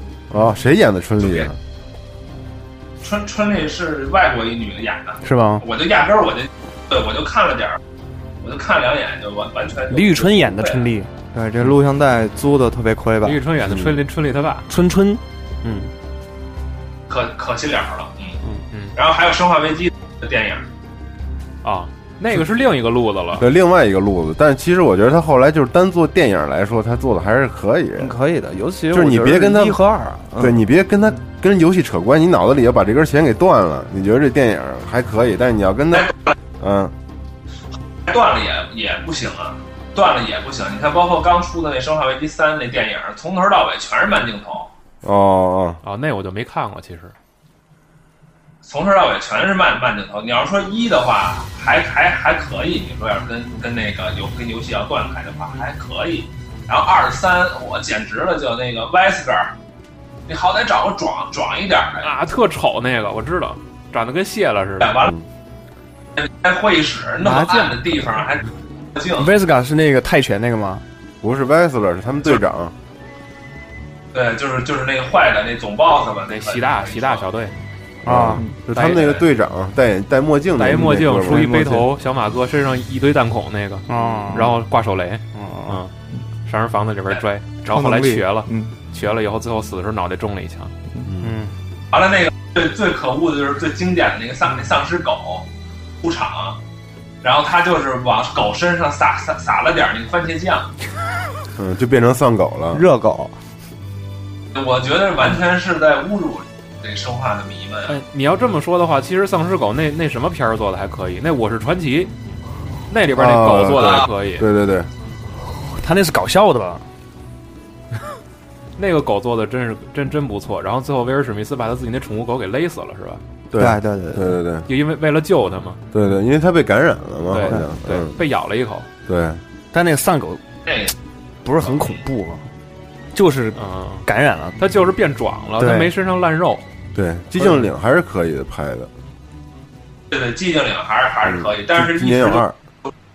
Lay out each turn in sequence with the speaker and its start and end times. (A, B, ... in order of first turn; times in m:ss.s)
0:00.3-0:01.6 A
0:03.0-0:07.8 B
0:05.2-0:05.6 C
0:08.4-0:10.9 B
0:09.9-0:11.1 C
0:11.3-0:13.4 D
0:13.2-0:14.7 E
0:13.6-0:14.0 A
0:14.7-0:15.9 C
0:17.1-0:18.4 B
0:18.7-0:19.0 E
0:18.9-0:20.6 B
0:21.6-0:23.5 E
0:23.4-0:28.1 A
0:28.0-0:30.6 D
0:28.9-0:29.8 A
0:30.3-0:36.9 A
0:38.0-0:44.7 B
0:45.0-0:45.8 A
0:45.8-0:47.1 E
0:48.6-0:59.5 B
1:00.3-1:02.1 B
1:02.0-1:05.1 E
1:04.8-1:05.1 B
1:06.2-1:09.2 B
1:07.2-1:07.8 D
1:09.1-1:10.8 C
1:11.2-1:12.7 A
1:14.1-1:17.2 B
1:16.3-1:17.5 E
1:18.0-1:18.4 C
1:18.0-1:21.5 A
1:18.7-1:19.2 E
1:20.6-1:25.9 E
1:20.7-1:21.9 D
1:23.9-1:24.5 C
1:25.3-1:25.8 C
1:26.4-1:30.7 E
1:27.7-1:28.7 D
1:31.0-1:31.3 A
1:31.2-1:31.5 C
1:31.9-1:35.5 B
1:36.0-1:36.6 B
1:37.2-1:40.7 B
1:41.5-1:42.8 A
1:42.7-1:43.4 D
1:44.5-1:48.0 B
1:47.9-1:52.1 E
1:52.9-1:54.5 E
1:53.1-1:54.9 A
1:55.6-1:56.8 C
1:58.8-2:03.2 E
2:03.5-2:04.7 A
2:03.6-2:04.4 D
2:04.6-2:05.8 E
2:05.9-2:08.2 A
2:07.3-2:08.9 E
2:09.1-2:09.4 A
2:09.7-2:10.4 C
2:10.6-2:10.9 B
2:11.4-2:12.5 C
2:13.1-2:14.6 C
2:13.6-2:14.0 E
2:14.6-2:16.6 E
2:15.6-2:15.9 C
2:16.9-2:18.9 A
2:20.1-2:22.4 B
2:21.2-2:22.6 A